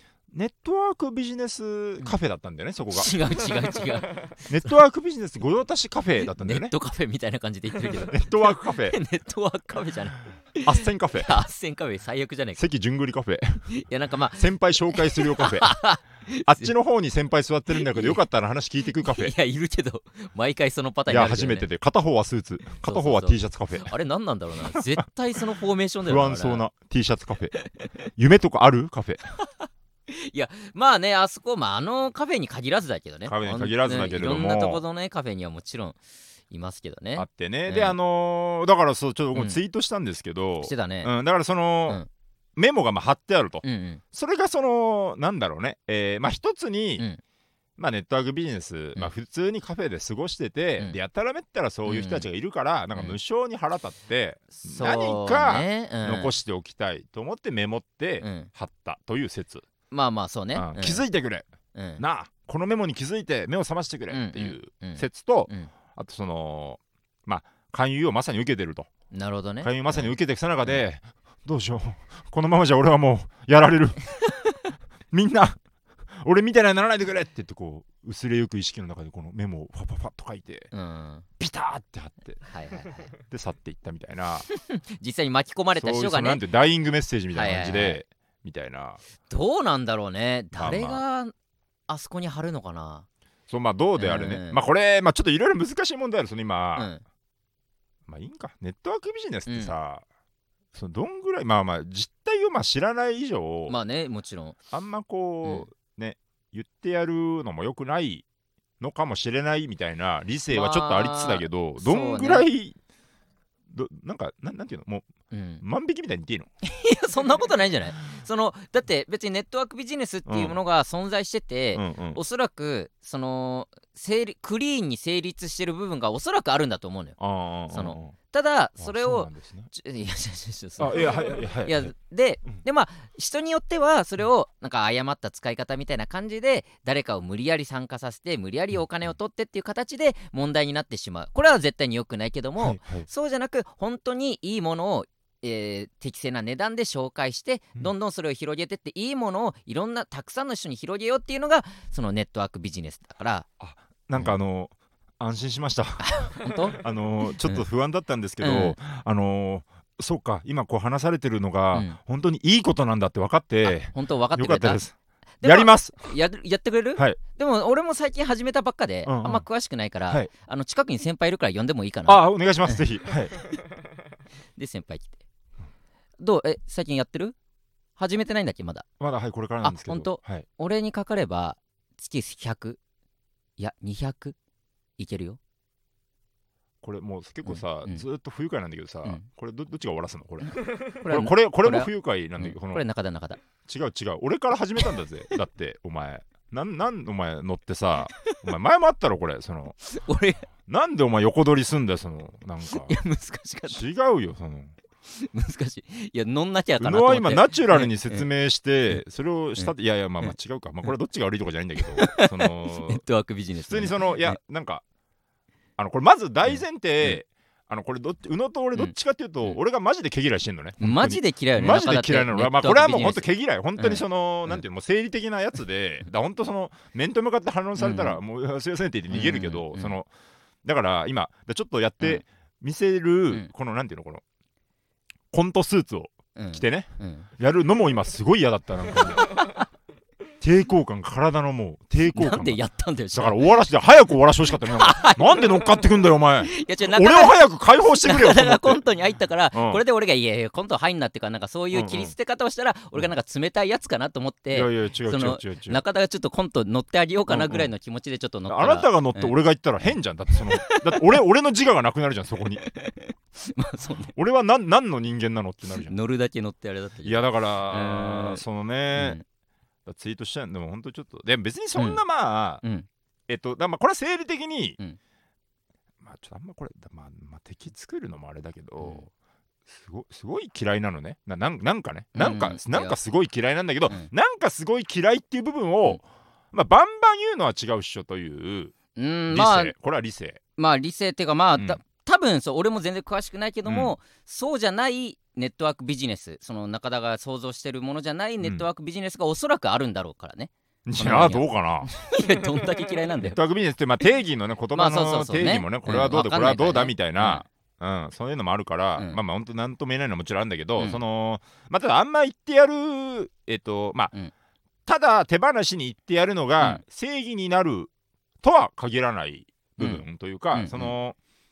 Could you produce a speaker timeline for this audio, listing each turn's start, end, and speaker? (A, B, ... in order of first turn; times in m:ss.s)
0:00.3-0:03.1 A
0:02.9-0:04.5 B
0:04.4-0:06.7 A
0:06.3-0:12.6 B
0:07.9-0:09.0 A
0:10.6-0:11.4 A
0:12.6-0:13.7 A
0:13.7-0:16.7 B
0:14.3-0:15.8 A
0:16.4-0:19.3 A
0:17.7-0:18.2 B
0:19.0-0:21.7 B
0:21.1-0:23.9 A
0:22.8-0:26.6 B
0:24.7-0:25.0 A
0:26.0-0:27.6 A
0:27.5-0:28.1 B
0:28.2-0:29.2 A
0:29.4-0:36.0 B
0:33.2-0:34.8 A
0:36.5-0:37.9 B
0:37.2-0:42.0 A
0:40.6-0:41.1 B
0:42.6-0:47.0 A
0:43.6-0:44.0 B
0:47.8-0:59.6 A
0:51.8-0:52.2 B
0:54.6-0:56.3 B
0:58.2-0:58.5 B
0:59.9-1:01.0 B
1:00.5-1:01.4 A
1:01.7-1:02.0 B
1:02.0-1:08.9 A
1:04.1-1:05.7 B
1:09.1-1:10.8 B
1:09.6-1:15.6 A
1:16.1-1:20.7 A
1:20.7-1:21.3 B
1:21.4-1:22.4 A
1:22.4-1:23.1 B
1:23.1-1:24.5 A
1:24.6-1:26.4 B
1:25.8-1:29.0 A
1:27.3-1:28.0 B
1:29.3-1:31.3 B
1:30.5-1:31.0 A
1:31.9-1:33.0 B
1:33.5-1:36.9 A
1:34.0-1:34.6 B
1:36.8-1:37.0 B
1:38.1-1:40.0 A
1:39.5-1:39.7 B
1:40.7-1:43.8 A
1:43.7-1:44.6 B
1:44.7-1:48.2 A
1:48.8-1:52.8 A
1:50.5-1:52.4 B
1:53.7-1:55.1 A
1:55.3-1:55.6 B
1:55.6-1:56.5 A
1:56.6-2:07.2 B
2:00.2-2:00.6 A
2:01.7-2:02.2 A
2:07.2-2:08.2 A
2:07.7-2:33.4 B
2:08.8-2:09.7 A
2:10.8-2:11.9 A
2:22.6-2:23.1 A
2:33.6-2:46.1 A
2:36.0-2:37.6 B
2:38.4-2:38.8 B
2:43.6-2:44.8 B
2:45.4-2:52.8 B
2:49.0-2:49.4 A
2:52.0-2:53.3 A
2:54.6-2:55.2 B
2:56.2-2:57.4 B
2:58.0-2:58.9 B
2:59.0-3:00.4 A
2:59.6-3:02.8 B
3:03.6-3:04.4 B
3:05.0-3:05.4 B
3:06.8-3:12.8 A
3:07.4-3:08.0 B
3:10.5-3:13.4 B
3:13.7-3:19.8 A
3:19.8-3:20.5 B
3:20.7-3:23.0 A
3:22.6-3:23.8 B
3:23.7-3:24.7 A
3:25.1-3:28.3 B
3:26.8-3:33.0 A
3:29.6-3:30.3 B
3:31.8-3:34.4 B
3:33.6-3:34.8 A
3:35.8-3:50.1 A
3:36.5-3:37.2 B
3:38.8-3:39.6 B
3:40.8-3:43.2 B
3:43.8-3:44.6 B
3:47.8-3:48.2 B
3:49.1-3:49.9 B
3:50.6-3:54.2 A
3:55.3-3:59.4 A
3:56.3-3:57.3 B
3:59.0-3:59.7 B
4:00.4-4:02.6 A
4:02.1-4:03.5 B
4:03.1-4:08.8 A
4:04.6-4:05.8 B
4:06.4-4:21.2 B
4:09.5-4:09.8 A
4:11.7-4:12.1 A
4:14.5-4:15.8 A
4:17.3-4:17.7 A
4:18.5-4:22.6 A
4:22.6-4:24.1 B
4:24.1-4:25.9 A
4:25.8-4:28.4 B
4:27.0-4:29.2 A
4:28.9-4:29.2 B
4:29.8-4:32.6 A
4:31.8-4:32.0 B
4:32.6-4:32.9 B
4:33.3-4:34.8 A
4:36.0-4:39.1 A
4:38.8-4:39.0 B
4:39.7-4:48.7 A
4:42.1-4:43.0 B
4:48.9-4:49.7 B
4:49.3-4:50.4 A
4:50.6-5:03.4 B
4:53.6-4:53.9 A
5:00.8-5:01.9 A
5:03.2-5:14.1 A
5:04.7-5:07.4 B
5:14.8-5:17.9 A
5:18.4-5:21.2 A
5:19.8-5:20.9 B